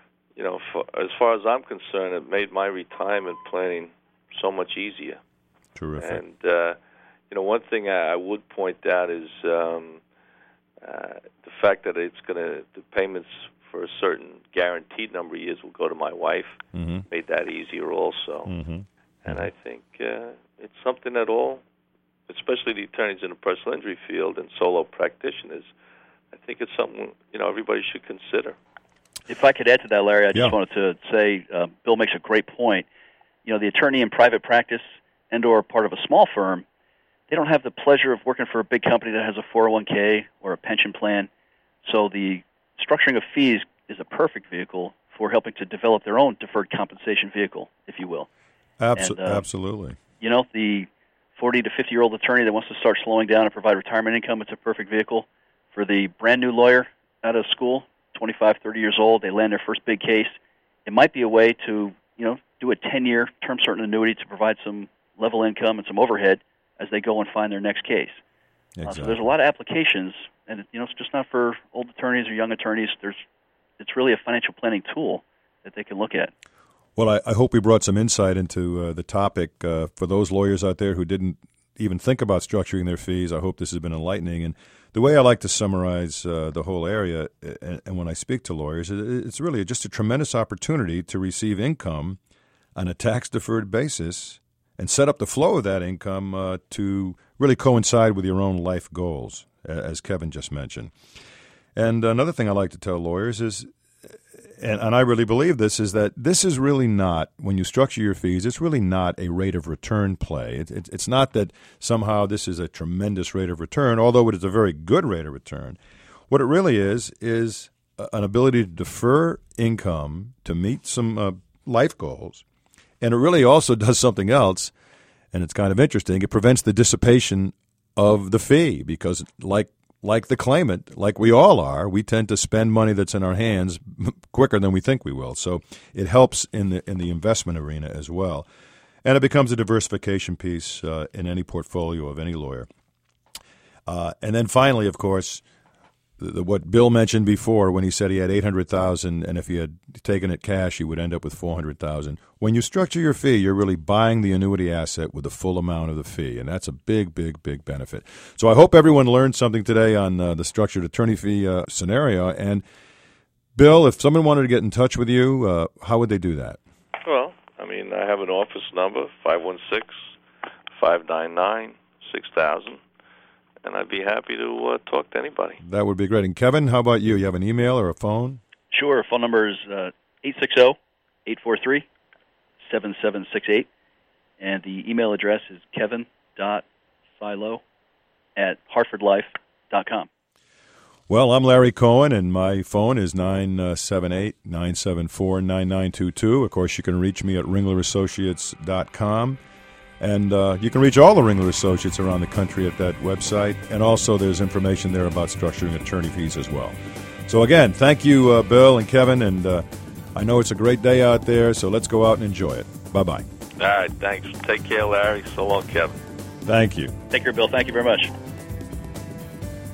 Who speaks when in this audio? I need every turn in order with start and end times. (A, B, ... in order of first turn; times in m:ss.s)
0:00.4-0:05.2 A
0:05.8-0:06.2 B
0:06.0-0:06.8 A
0:07.3-0:10.0 A
0:10.8-0:18.5 A
0:16.7-0:17.1 B
0:18.5-0:19.4 B
0:19.2-0:21.6 A
0:22.3-0:25.7 A
0:26.3-0:28.6 A
0:29.3-0:32.9 C
0:33.4-0:36.6 C
0:37.3-0:41.3 C
0:41.8-0:48.3 C
0:48.8-0:50.0 B
0:49.0-0:49.5 C
0:50.2-1:00.4 C
1:00.9-1:08.2 C
1:08.8-1:09.2 B
1:08.9-1:13.2 C
1:13.8-1:16.3 C
1:17.0-1:32.2 B
1:32.8-1:40.9 B
1:41.8-1:55.8 B
1:56.3-2:02.4 B
2:03.0-2:04.7 B
2:05.3-2:18.5 B
2:19.0-2:22.7 B
2:23.9-2:25.4 B
2:26.2-2:42.6 B
2:43.6-2:46.6 B
2:47.0-2:50.1 A
2:50.7-2:52.8 A
2:53.6-2:55.6 A
2:55.6-2:58.4 B
2:58.7-3:01.9 C
3:02.7-3:03.7 C
3:04.4-3:06.7 C
3:07.2-3:07.6 C
3:08.4-3:10.1 C
3:11.1-3:19.4 B
3:20.0-3:33.3 B
3:33.6-3:36.0 A
3:36.4-3:36.9 B
3:37.1-3:38.1 C